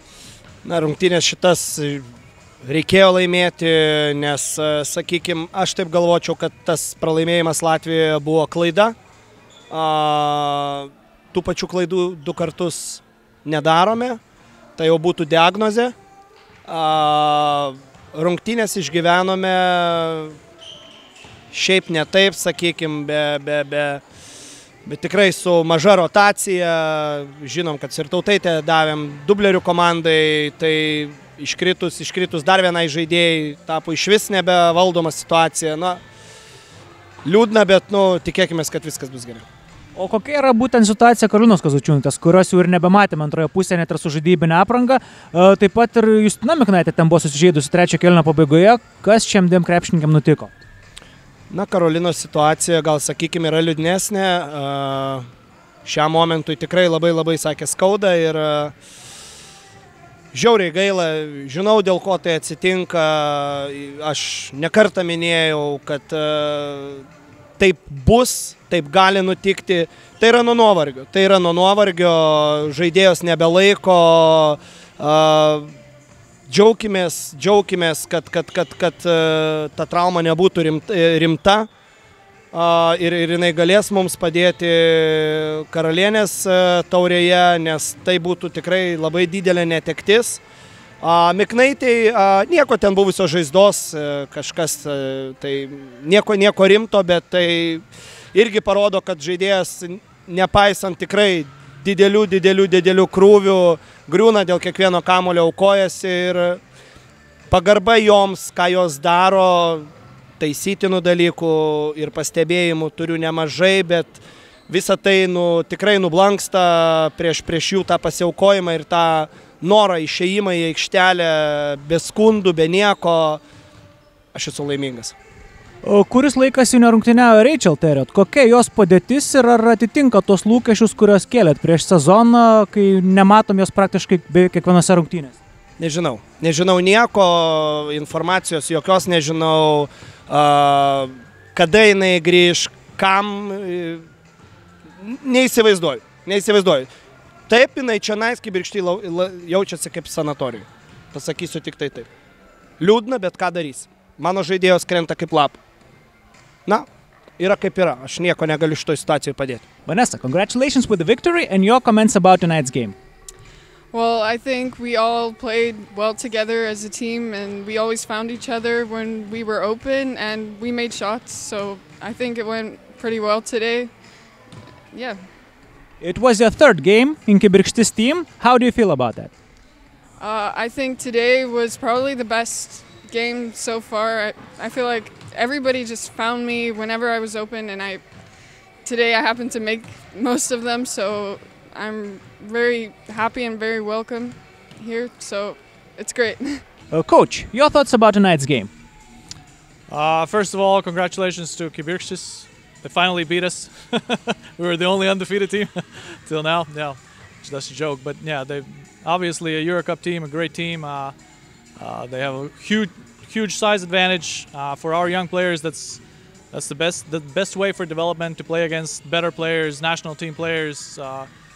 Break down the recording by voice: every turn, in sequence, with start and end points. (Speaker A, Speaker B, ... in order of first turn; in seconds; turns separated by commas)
Speaker A: 0.6-2.0, Speaker A: 2.6-8.9, Speaker A: 9.7-14.2, Speaker A: 14.8-15.9, Speaker A: 16.7-20.4, Speaker A: 21.5-24.0, Speaker A: 24.8-36.0, Speaker A: 37.2-39.4, Speaker B: 39.9-50.5, Speaker A: 51.5-55.2, Speaker A: 55.8-58.7, Speaker A: 60.3-67.0, Speaker A: 67.6-75.7, Speaker A: 76.5-81.7, Speaker A: 82.5-90.4, Speaker A: 91.0-106.6, Speaker A: 107.5-109.9, Speaker A: 110.4-123.4, Speaker A: 124.3-125.2, Speaker B: 125.8-135.3, Speaker A: 135.8-144.0, Speaker A: 145.0-146.9, Speaker A: 147.5-152.1, Speaker A: 152.8-155.6, Speaker A: 157.4-159.6, Speaker B: 159.8-162.9, Speaker C: 163.9-173.9, Speaker C: 174.9-175.2, Speaker B: 176.0-179.3, Speaker C: 180.2-188.0, Speaker C: 188.8-196.6, Speaker B: 196.9-198.7, Speaker D: 199.9-211.2, Speaker D: 211.8-221.3